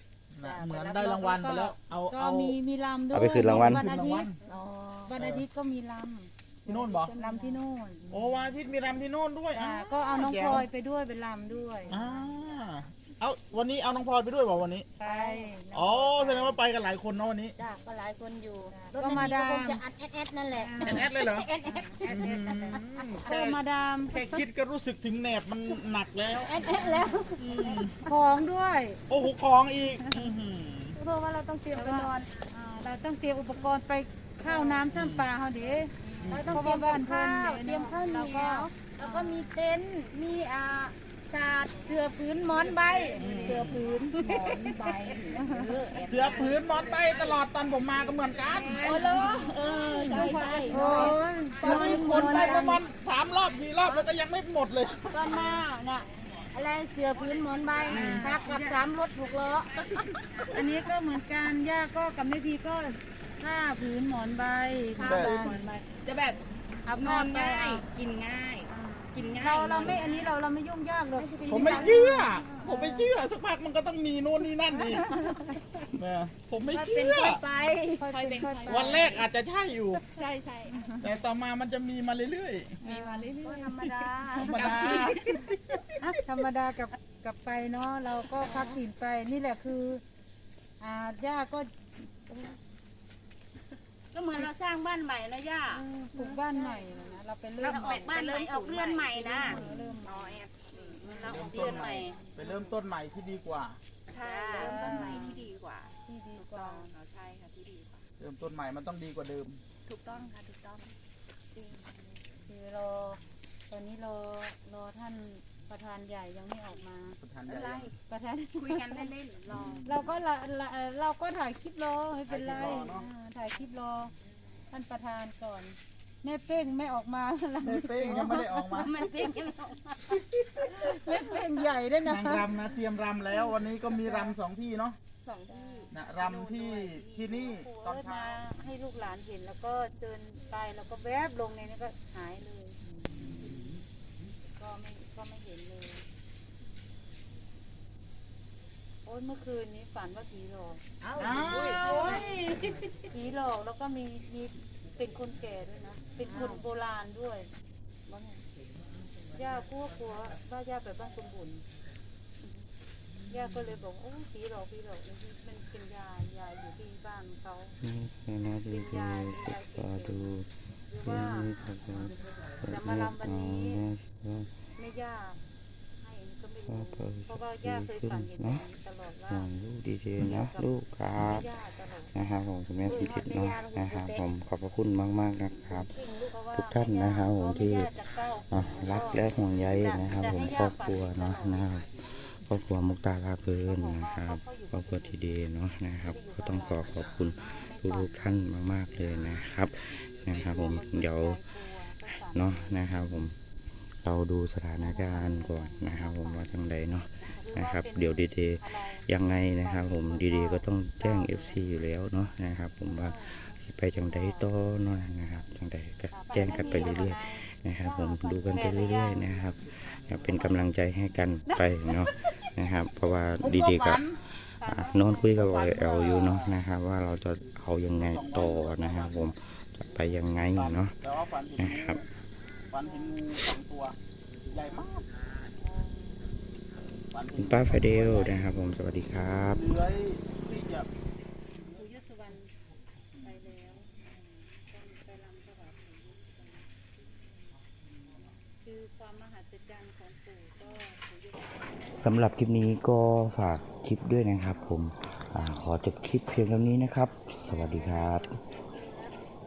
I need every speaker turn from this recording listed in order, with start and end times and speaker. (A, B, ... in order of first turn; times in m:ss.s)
0:00.3-0:02.6 A
0:00.4-0:04.3 B
0:03.1-0:03.9 C
0:03.4-0:04.4 A
0:04.5-0:05.1 D
0:05.1-0:08.1 B
0:05.1-0:05.4 A
0:06.7-0:07.1 A
0:07.1-0:07.6 D
0:08.1-0:10.7 A
0:09.5-0:12.2 B
0:11.9-0:14.9 A
0:15.0-0:16.6 B
0:15.0-0:15.5 D
0:15.7-0:17.6 A
0:17.6-0:23.1 D
0:18.7-0:19.8 B
0:20.5-0:21.1 B
0:20.8-0:21.5 A
0:21.6-0:24.1 B
0:22.1-0:26.5 A
0:26.3-0:28.1 D
0:26.6-0:27.3 B
0:27.4-0:28.0 A
0:28.0-0:29.0 B
0:29.1-0:31.0 A
0:31.0-0:32.3 D
0:31.7-0:39.6 B
0:34.4-0:35.0 D
0:34.9-0:35.3 A
0:36.0-0:46.5 D
0:36.2-0:36.8 A
0:43.2-0:43.8 A
0:43.4-0:44.7 E
0:44.2-0:45.7 B
0:45.9-0:47.4 E
0:46.0-0:48.9 A
0:48.1-0:51.2 E
0:48.5-0:52.8 D
0:48.8-0:52.8 B
0:50.7-0:55.6 A
0:51.9-0:52.3 E
0:55.1-1:00.1 D
0:57.9-0:58.8 B
0:57.9-0:58.4 A
1:00.0-1:00.4 E
1:00.5-1:05.7 B
1:05.0-1:06.4 E
1:05.0-1:05.7 A
1:05.1-1:10.1 D
1:06.9-1:07.8 B
1:07.0-1:10.3 E
1:08.7-1:12.4 B
1:11.2-1:13.0 D
1:11.5-1:15.1 A
1:14.8-1:15.6 B
1:15.3-1:15.5 D
1:15.9-1:17.4 A
1:16.7-1:18.9 D
1:16.7-1:17.1 E
1:18.0-1:19.2 B
1:18.1-1:19.3 E
1:18.6-1:20.0 A
1:20.2-1:20.7 D
1:20.2-1:20.8 E
1:20.7-1:21.1 B
1:21.0-1:22.8 A
1:22.8-1:23.5 B
1:22.8-1:25.5 D
1:23.1-1:24.0 E
1:24.4-1:26.2 A
1:24.6-1:25.4 E
1:26.0-1:30.0 B
1:28.4-1:28.7 D
1:30.8-1:31.7 B
1:34.1-1:36.8 D
1:35.7-1:38.3 B
1:37.0-1:42.2 E
1:37.6-1:39.6 D
1:39.3-1:40.4 B
1:39.4-1:40.0 A
1:40.7-1:42.4 D
1:41.0-1:41.7 B
1:41.2-1:43.8 A
1:44.1-1:48.0 E
1:44.1-1:45.5 D
1:44.5-1:45.5 B
1:46.0-1:46.9 B
1:48.2-1:49.6 A
1:49.9-1:50.9 E
1:51.6-1:51.9 E
1:51.6-1:51.9 D
1:52.4-1:57.2 B
1:57.2-1:57.9 A
1:57.5-1:57.9 E
1:58.1-1:59.1 B
1:58.6-2:00.0 D
1:59.5-2:00.0 A
1:59.8-2:04.1 B
2:02.3-2:03.1 A
2:02.5-2:03.0 D
2:04.7-2:08.9 B
2:07.6-2:09.1 A
2:08.7-2:10.2 D
2:10.6-2:12.5 B
2:12.0-2:15.0 A
2:13.9-2:14.3 B
2:15.2-2:16.9 D
2:15.5-2:15.9 B
2:15.9-2:18.4 A
2:16.2-2:17.1 E
2:17.3-2:22.8 B
2:23.1-2:23.6 A
2:24.5-2:26.1 B
2:29.0-2:30.8 B
2:31.1-2:32.2 A
2:31.2-2:32.5 E
2:31.3-2:32.8 D
2:31.6-2:32.3 B
2:33.1-2:37.5 B
2:36.2-2:36.6 D
2:38.1-2:38.4 D
2:39.3-2:41.6 B
2:43.3-2:47.8 B
2:47.8-2:50.5 C
2:48.7-2:50.4 B
2:50.9-2:52.1 B
2:51.0-2:54.5 C
2:52.6-2:53.8 B
2:54.8-2:55.4 B
2:56.0-2:59.5 B
2:56.7-2:58.6 C
2:59.3-3:01.5 C
3:00.2-3:02.2 B
3:02.1-3:06.0 C
3:02.8-3:04.3 D
3:05.5-3:11.8 B
3:06.5-3:07.9 C
3:08.5-3:21.5 C
3:13.6-3:15.3 B
3:16.1-3:18.1 B
3:20.4-3:20.7 A
3:20.4-3:23.1 B
3:22.0-3:23.4 C
3:24.0-3:51.0 C
3:24.8-3:26.6 B
3:27.2-3:29.1 B
3:29.6-3:31.6 B
3:32.8-3:34.7 B
3:36.1-3:40.6 B
3:36.4-3:37.0 D
3:43.4-3:44.2 A
3:44.6-3:45.3 B
3:45.3-3:46.6 A
3:48.0-3:49.3 A
3:50.5-3:52.1 A
3:51.6-3:52.0 C
3:52.7-3:54.0 A
3:52.8-3:53.1 B
3:54.5-3:55.3 A
3:55.7-3:56.0 B
3:57.1-3:58.4 A
3:57.4-3:59.7 C
3:59.5-4:00.9 A
4:01.6-4:02.5 B
4:03.2-4:06.7 B
4:08.6-4:11.9 B
4:11.9-4:18.4 C
4:17.5-4:19.1 B